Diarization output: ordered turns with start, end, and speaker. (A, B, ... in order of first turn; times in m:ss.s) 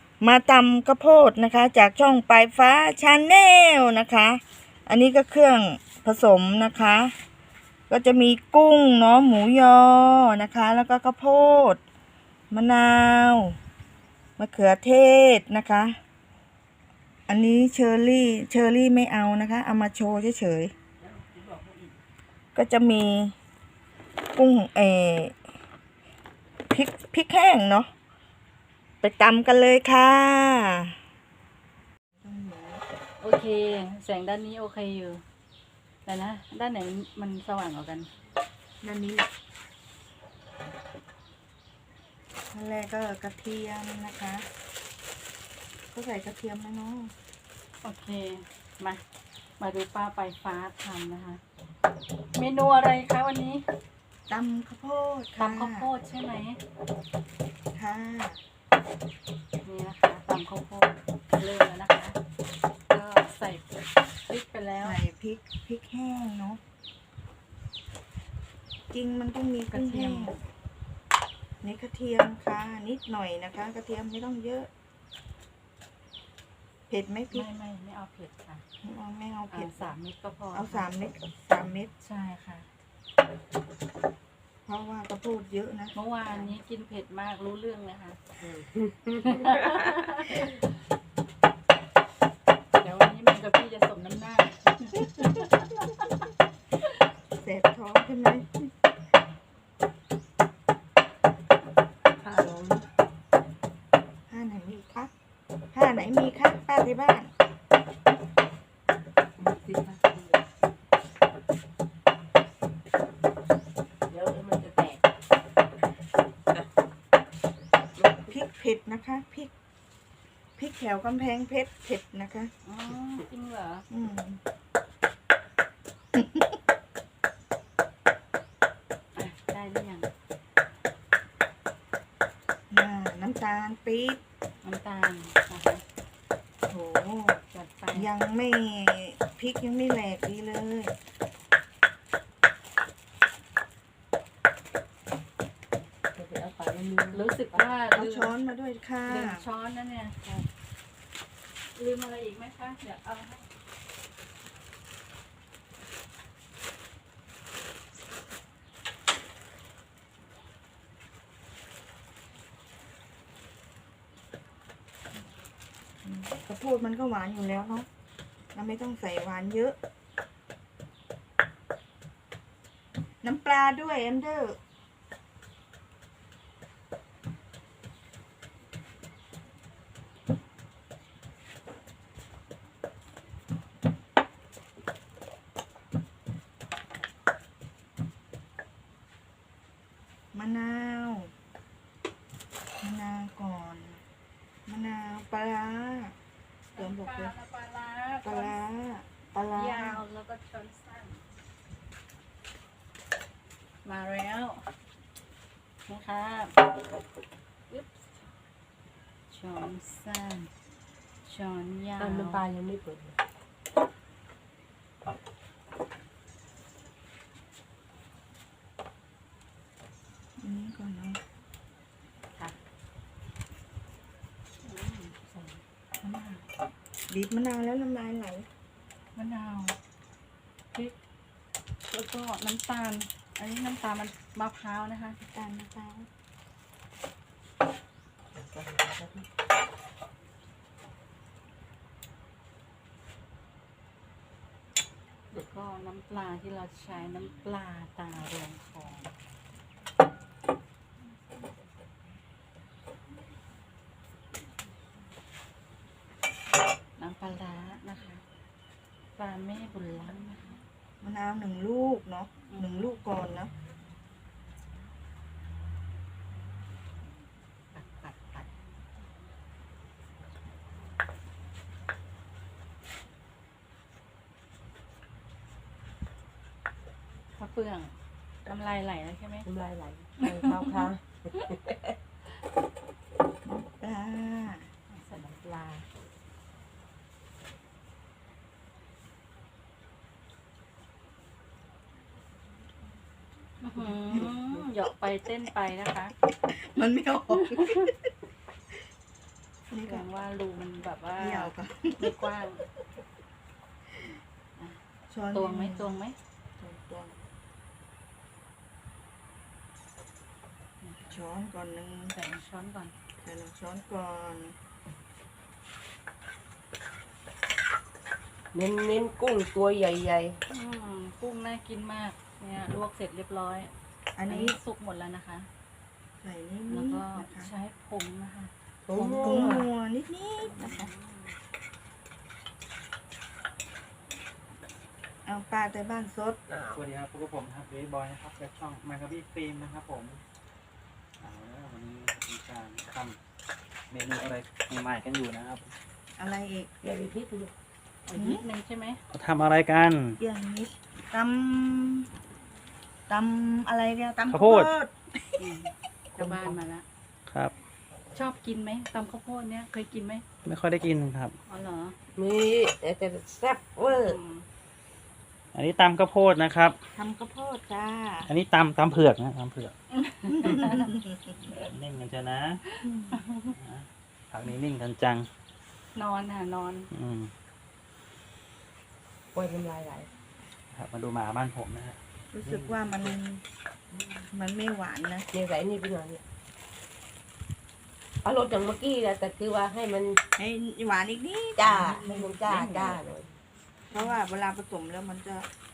0:00.2-0:07.1 A
0:07.9-0:11.8 A
0:12.5-0:13.6 A
0:14.4-0:16.0 A
0:17.3-0:20.7 A
0:21.1-0:21.9 B
0:22.5-0:23.3 A
0:24.3-0:25.3 A
0:26.7-0:27.9 A
0:29.0-0:31.0 A
0:32.2-0:32.8 A
0:33.2-0:35.2 B
0:36.0-0:38.1 B
0:38.8-0:39.3 A
0:42.5-0:44.5 A
0:45.9-0:47.1 A
0:47.8-0:49.0 B
0:49.6-0:51.4 B
0:52.3-0:53.6 B
0:54.3-0:55.9 A
0:55.4-0:56.6 B
0:57.7-0:58.4 A
0:59.6-1:02.2 B
1:02.9-1:05.0 B
1:04.8-1:06.6 A
1:08.9-1:10.4 A
1:09.7-1:10.3 B
1:11.6-1:14.7 A
1:16.9-1:17.5 A
1:17.3-1:18.6 B
1:18.8-1:19.8 A
1:19.5-1:20.9 B
1:20.5-1:21.9 A
1:21.6-1:22.7 B
1:24.6-1:26.5 A
1:25.9-1:28.2 B
1:28.4-1:29.8 C
1:29.2-1:30.5 B
1:32.7-1:35.9 B
1:37.4-1:38.7 A
1:42.2-1:42.8 C
1:44.3-1:45.1 A
1:45.7-1:47.3 A
1:49.4-1:50.4 C
1:54.1-1:55.0 C
1:57.9-1:58.3 C
1:58.3-1:59.5 A
2:00.6-2:02.5 A
2:02.6-2:03.8 B
2:03.9-2:04.4 A
2:06.1-2:06.6 A
2:09.2-2:10.1 B
2:12.7-2:14.2 A
2:14.6-2:15.8 B
2:16.7-2:17.4 A
2:17.5-2:18.1 B
2:17.9-2:20.9 A
2:26.1-2:28.0 C
2:27.1-2:28.3 B
2:27.9-2:29.4 A
2:29.1-2:30.3 B
2:31.7-2:33.5 B
2:46.0-2:47.9 A
2:48.5-2:49.8 A
2:53.2-2:54.6 A
3:10.3-3:11.3 A
3:12.8-3:14.0 A
3:14.7-3:16.1 A
3:16.7-3:18.5 B
3:16.8-3:17.3 A
3:18.2-3:20.0 A
3:19.5-3:21.2 B
3:23.8-3:24.6 B
3:25.9-3:26.6 B
3:27.7-3:28.2 B
3:29.3-3:30.5 B
3:31.2-3:32.4 B
3:32.0-3:33.2 C
3:40.4-3:41.2 A
3:44.6-3:46.4 B
3:47.1-3:48.5 A
3:49.2-3:49.8 B
3:51.9-3:55.2 B
3:55.2-3:56.1 A
3:58.3-3:59.2 C
4:05.3-4:09.1 B
4:17.0-4:18.2 B
4:19.2-4:20.6 B
4:21.0-4:23.5 A
4:22.5-4:22.9 B
4:27.7-4:28.5 B
4:37.4-4:37.9 B
4:38.4-4:39.5 B
4:39.4-4:42.0 C
4:40.2-4:40.8 B
4:43.4-4:44.7 A
4:44.9-4:45.8 B
4:53.6-4:56.1 B
4:53.8-4:54.7 A
4:56.5-4:57.9 A
4:57.4-4:57.9 B
4:59.7-5:00.1 A
4:59.8-5:02.6 B
5:01.2-5:02.2 A
5:05.1-5:06.0 A
5:05.3-5:06.2 B
5:06.6-5:07.2 A
5:11.1-5:12.1 A
5:12.1-5:12.9 B
5:13.2-5:14.5 A
5:18.5-5:20.4 C
5:20.5-5:23.7 B
5:24.2-5:24.6 A
5:24.3-5:25.5 B
5:26.2-5:27.5 A
5:26.7-5:29.7 B
5:28.9-5:29.6 C
5:29.2-5:30.9 A
5:30.5-5:31.3 B
5:35.2-5:36.4 A
5:36.5-5:36.8 C
5:36.7-5:40.2 D
5:41.2-5:43.2 D
5:43.9-5:45.7 D
5:46.2-5:46.7 A
5:46.8-5:47.5 C
5:48.1-5:49.0 B
5:48.1-5:48.4 A
5:49.1-5:50.2 D
5:50.2-5:52.1 A
5:53.1-5:54.9 A
5:54.3-5:54.7 D
5:55.4-5:56.8 B
5:56.2-5:56.6 C
5:57.3-5:57.5 D
5:58.1-6:00.2 B
6:00.4-6:01.3 D
6:01.5-6:01.9 B
6:02.2-6:04.2 C
6:03.9-6:04.4 B
6:05.5-6:06.8 D
6:07.0-6:08.3 A
6:08.3-6:09.7 D
6:09.9-6:10.9 B
6:10.3-6:11.3 A
6:11.4-6:12.6 D
6:12.7-6:13.5 B
6:12.8-6:13.2 A
6:13.6-6:15.3 D
6:15.9-6:16.9 B
6:16.9-6:17.3 D
6:19.3-6:20.1 C
6:20.7-6:23.1 D
6:22.3-6:23.4 A
6:24.3-6:25.2 A
6:25.3-6:26.2 C
6:28.2-6:30.2 C
6:30.4-6:33.0 A
6:31.6-6:33.3 C
6:33.9-6:35.5 A